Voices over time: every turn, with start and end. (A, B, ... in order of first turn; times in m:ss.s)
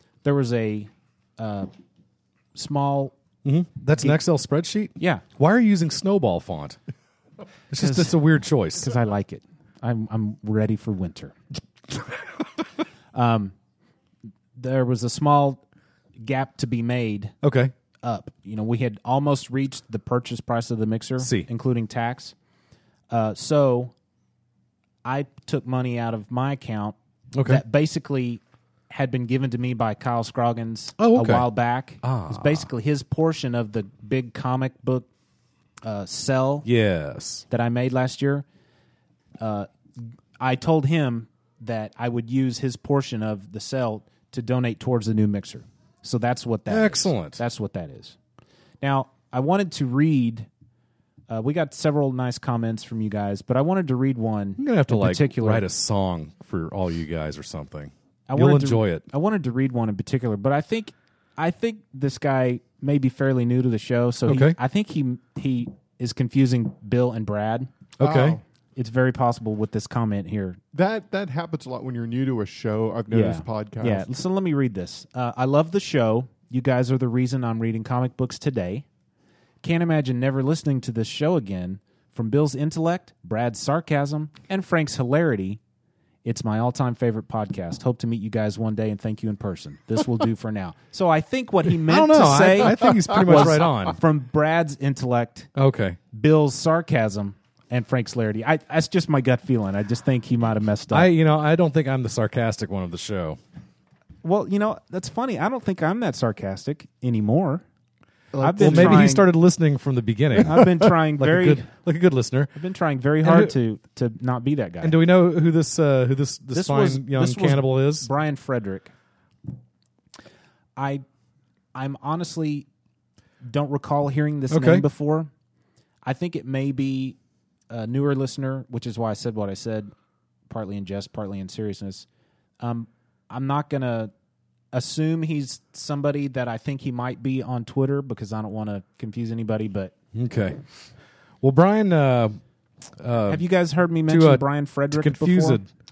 0:00.2-0:01.7 A
0:02.5-0:03.1 A
0:03.4-0:06.8 B
0:05.0-0:05.2 A
0:07.7-0:09.0 B
0:07.8-0:08.2 A
0:08.7-0:11.4 A
0:13.1-0:13.6 A
0:14.6-0:15.6 A
0:16.2-0:17.3 A
0:17.4-0:17.7 B
0:18.0-0:22.4 A
0:21.2-0:21.5 B
0:23.1-0:23.9 A
0:25.0-0:35.1 A
0:27.3-0:27.6 B
0:31.0-0:31.5 B
0:32.0-0:32.7 B
0:35.8-0:36.7 A
0:36.6-0:37.4 B
0:37.5-0:38.5 A
0:39.4-0:39.7 A
0:40.4-0:48.2 A
0:46.7-0:47.4 B
0:48.8-0:50.5 A
0:51.3-0:55.6 A
0:54.6-0:59.0 B
0:58.3-1:07.7 A
1:04.3-1:04.6 B
1:08.0-1:08.4 B
1:08.0-1:08.4 C
1:08.8-1:10.6 A
1:10.7-1:14.1 C
1:13.1-1:18.9 A
1:19.6-1:25.6 A
1:26.2-1:35.5 A
1:31.8-1:34.0 B
1:32.8-1:33.3 C
1:35.6-1:36.0 B
1:36.1-1:41.1 A
1:40.9-1:43.4 B
1:44.2-1:47.6 A
1:48.3-1:49.2 C
1:48.4-1:49.3 A
1:48.6-1:52.5 B
1:50.4-1:51.7 A
1:52.6-1:55.0 A
1:53.2-1:53.6 B
1:54.8-1:58.1 B
1:56.5-1:58.9 A
2:00.8-2:01.0 A
2:01.8-2:02.7 A
2:03.4-2:05.3 A
2:04.5-2:04.9 B
2:06.0-2:07.2 A
2:07.7-2:09.9 A
2:10.5-2:12.1 A
2:12.6-2:14.1 A
2:14.7-2:19.9 A
2:20.2-2:20.6 B
2:21.4-2:22.4 B
2:23.0-2:23.4 B
2:23.3-2:25.6 A
2:24.1-2:25.7 B